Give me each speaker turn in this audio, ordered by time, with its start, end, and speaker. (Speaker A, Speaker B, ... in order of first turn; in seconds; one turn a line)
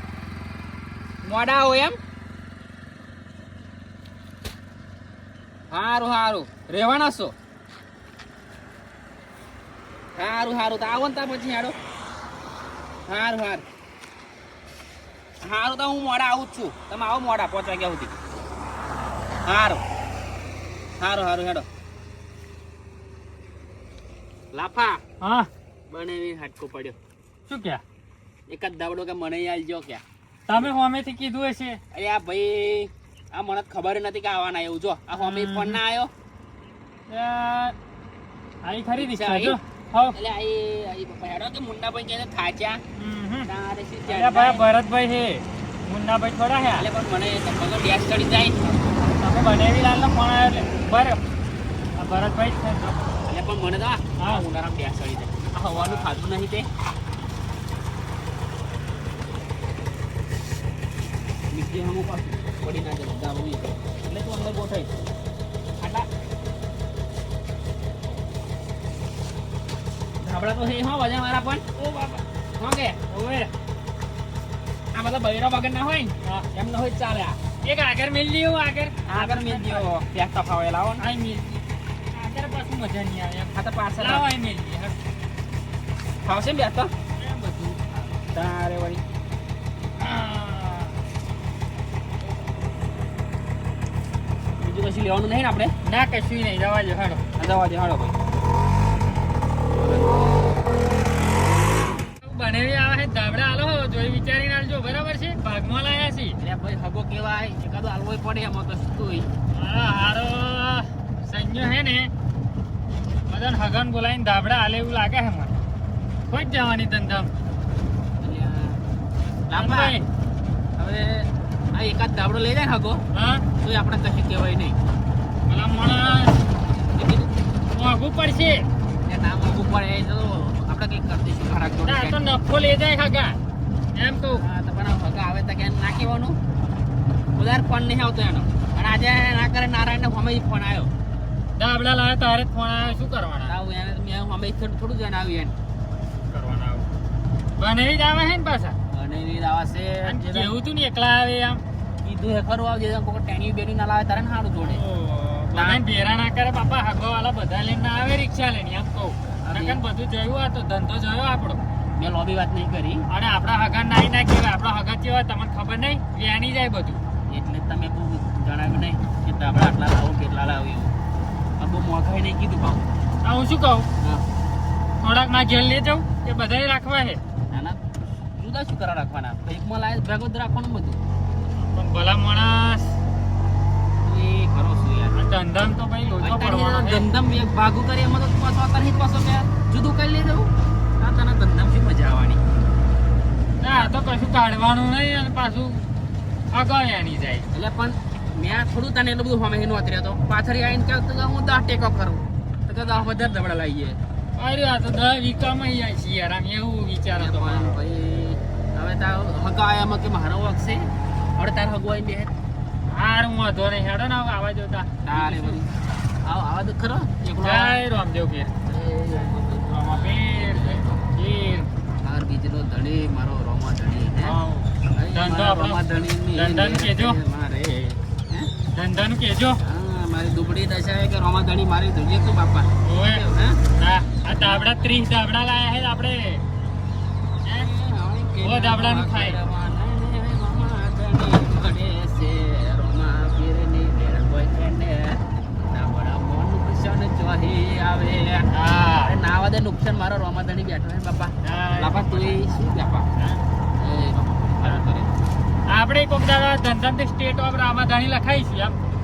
Speaker A: 1.2-2.0
Speaker A: 5.7-7.3
Speaker A: 10.2-11.8
Speaker A: 13.1-13.7
Speaker A: 15.4-18.1
Speaker A: 19.5-19.8
Speaker A: 21.0-21.7
Speaker A: 24.5-25.0
Speaker B: 25.2-25.5
Speaker A: 25.9-27.0
Speaker B: 27.5-27.8
Speaker A: 28.5-30.0
Speaker B: 30.5-31.8
Speaker A: 31.9-36.1
Speaker B: 35.1-35.8
Speaker B: 37.1-37.8
Speaker B: 38.6-40.1
Speaker A: 39.0-39.6
Speaker A: 40.1-42.8
Speaker B: 43.0-43.5
Speaker A: 43.5-44.7
Speaker B: 44.1-46.9
Speaker A: 46.8-48.8
Speaker B: 48.9-51.2
Speaker B: 52.0-53.0
Speaker A: 53.3-56.7
Speaker B: 54.2-54.4
Speaker B: 55.5-56.2
Speaker A: 61.5-64.9
Speaker A: 65.8-66.1
Speaker A: 70.2-73.0
Speaker B: 73.1-73.5
Speaker A: 74.9-77.4
Speaker B: 77.6-79.9
Speaker A: 79.1-81.0
Speaker B: 81.0-85.0
Speaker A: 83.5-84.2
Speaker A: 86.2-86.9
Speaker B: 87.2-88.2
Speaker A: 88.3-89.0
Speaker B: 90.0-91.0
Speaker A: 94.6-95.7
Speaker B: 95.8-97.2
Speaker A: 97.4-98.2
Speaker A: 99.7-100.4
Speaker B: 102.2-106.4
Speaker A: 106.4-109.3
Speaker B: 109.5-112.1
Speaker B: 113.3-115.5
Speaker B: 116.3-117.3
Speaker A: 118.2-118.8
Speaker A: 119.5-120.0
Speaker B: 119.6-120.0
Speaker A: 120.8-123.0
Speaker B: 123.1-123.5
Speaker A: 123.6-124.8
Speaker B: 125.5-126.3
Speaker A: 126.8-127.3
Speaker B: 127.7-128.7
Speaker A: 129.1-132.2
Speaker B: 131.9-133.4
Speaker B: 133.9-134.4
Speaker A: 134.1-136.4
Speaker A: 137.4-140.9
Speaker B: 141.6-143.5
Speaker A: 143.4-145.6
Speaker B: 146.3-146.9
Speaker B: 147.6-148.8
Speaker A: 148.9-150.6
Speaker B: 150.1-151.6
Speaker A: 152.0-154.8
Speaker B: 154.6-161.6
Speaker A: 155.5-155.8
Speaker A: 159.4-159.8
Speaker A: 162.0-163.1
Speaker B: 163.1-167.0
Speaker A: 167.3-170.9
Speaker A: 171.6-173.0
Speaker B: 173.2-173.9
Speaker A: 174.0-174.3
Speaker B: 175.0-177.2
Speaker A: 177.5-177.8
Speaker A: 178.3-181.0
Speaker B: 181.6-182.9
Speaker A: 184.0-185.2
Speaker B: 185.2-187.1
Speaker A: 186.2-192.4
Speaker B: 193.6-195.8
Speaker B: 196.5-197.5
Speaker A: 197.5-204.0
Speaker B: 204.4-207.8
Speaker A: 207.2-212.3
Speaker B: 212.9-215.6
Speaker A: 215.1-215.7
Speaker A: 216.2-217.8
Speaker B: 217.4-218.6
Speaker A: 218.7-221.0
Speaker B: 219.8-221.7
Speaker A: 222.0-224.4
Speaker B: 224.2-225.8
Speaker A: 224.9-228.5
Speaker B: 226.3-227.2
Speaker B: 228.8-229.6
Speaker A: 229.6-233.6
Speaker B: 232.8-233.2
Speaker B: 233.8-236.4
Speaker A: 234.3-234.8
Speaker A: 237.5-253.1
Speaker B: 238.4-239.4
Speaker B: 248.5-249.2
Speaker B: 251.4-252.5
Speaker A: 253.8-255.2
Speaker B: 255.7-258.8